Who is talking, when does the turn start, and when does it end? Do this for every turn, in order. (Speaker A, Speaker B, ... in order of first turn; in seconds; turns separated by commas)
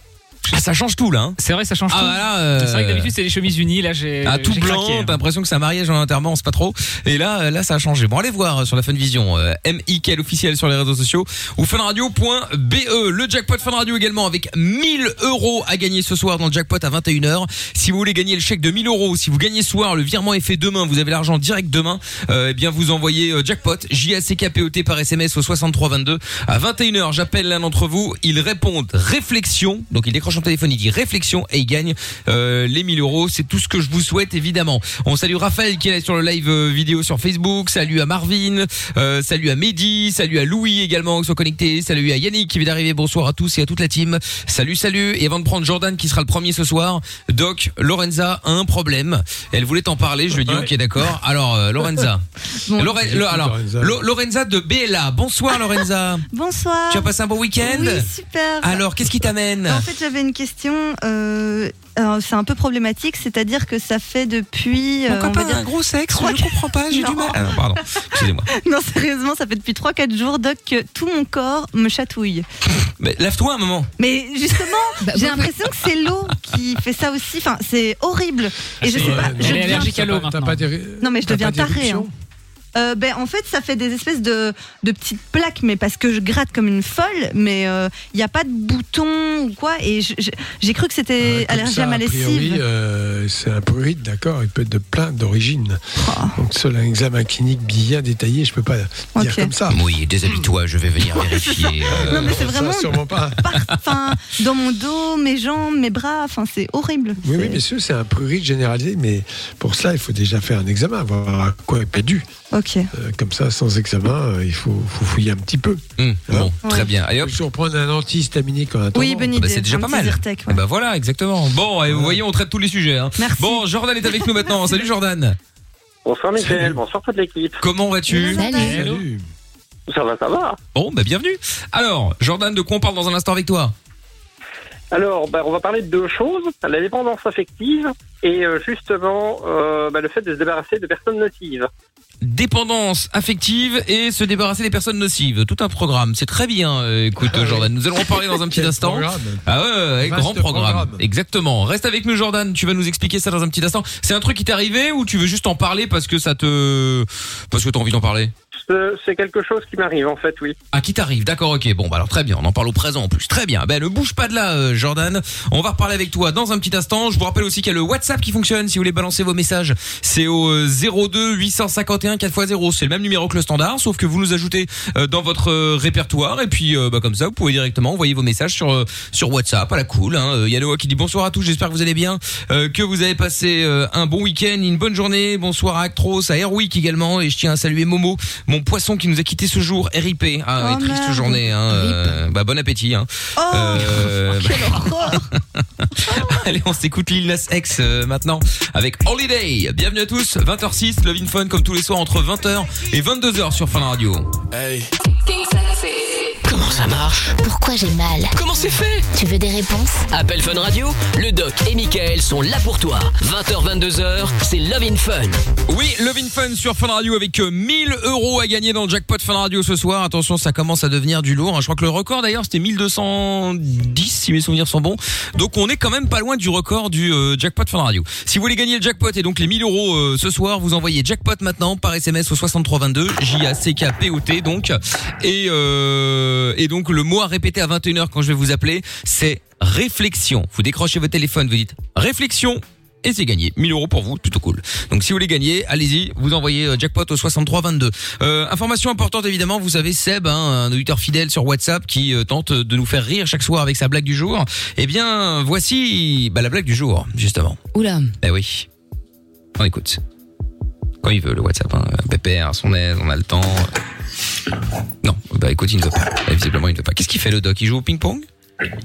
Speaker A: 0.5-1.4, Speaker B: 1.4-5.2, Speaker A: 1.9-3.1, Speaker A: 4.2-56.2, Speaker C: 50.4-50.7, Speaker D: 52.7-52.9, Speaker C: 52.8-54.0, Speaker D: 56.3-58.9, Speaker A: 56.9-58.1, Speaker A: 58.6-59.9, Speaker D: 59.6-67.5, Speaker A: 65.1-68.5, Speaker D: 68.2-72.4, Speaker A: 73.0-73.9, Speaker D: 74.0-80.0, Speaker E: 75.0-75.5, Speaker B: 78.8-80.6, Speaker C: 78.9-82.1, Speaker D: 81.0-82.1, Speaker D: 82.7-92.6, Speaker C: 91.2-95.8, Speaker D: 96.0-96.4, Speaker C: 96.3-100.3, Speaker D: 99.2-99.5, Speaker A: 99.7-102.4, Speaker D: 101.1-107.6, Speaker C: 101.9-103.4, Speaker C: 107.2-112.3, Speaker D: 112.5-112.9, Speaker C: 112.9-116.5, Speaker A: 116.0-117.3, Speaker D: 116.6-116.9, Speaker C: 117.2-119.5, Speaker D: 118.9-120.6, Speaker A: 119.3-125.4, Speaker C: 121.9-122.2, Speaker D: 123.2-124.5, Speaker F: 126.0-127.6, Speaker A: 126.4-126.7, Speaker A: 127.6-128.5, Speaker D: 128.2-128.8, Speaker E: 128.3-128.9, Speaker C: 128.5-129.2, Speaker F: 129.9-130.6, Speaker A: 130.7-133.7, Speaker F: 134.9-141.7, Speaker A: 142.2-158.3, Speaker C: 147.2-149.4, Speaker C: 150.0-151.0, Speaker F: 158.6-160.6, Speaker A: 160.7-204.3, Speaker D: 190.6-191.4, Speaker E: 191.7-192.1, Speaker D: 193.4-195.3, Speaker G: 206.4-206.7, Speaker H: 206.5-207.3, Speaker G: 207.4-208.3, Speaker H: 208.4-208.8, Speaker G: 209.1-210.1, Speaker H: 210.1-215.4, Speaker A: 215.7-257.6, Speaker E: 257.7-258.1, Speaker A: 258.2-258.7, Speaker A: 259.6-260.0, Speaker A: 261.0-263.7, Speaker A: 265.0-268.2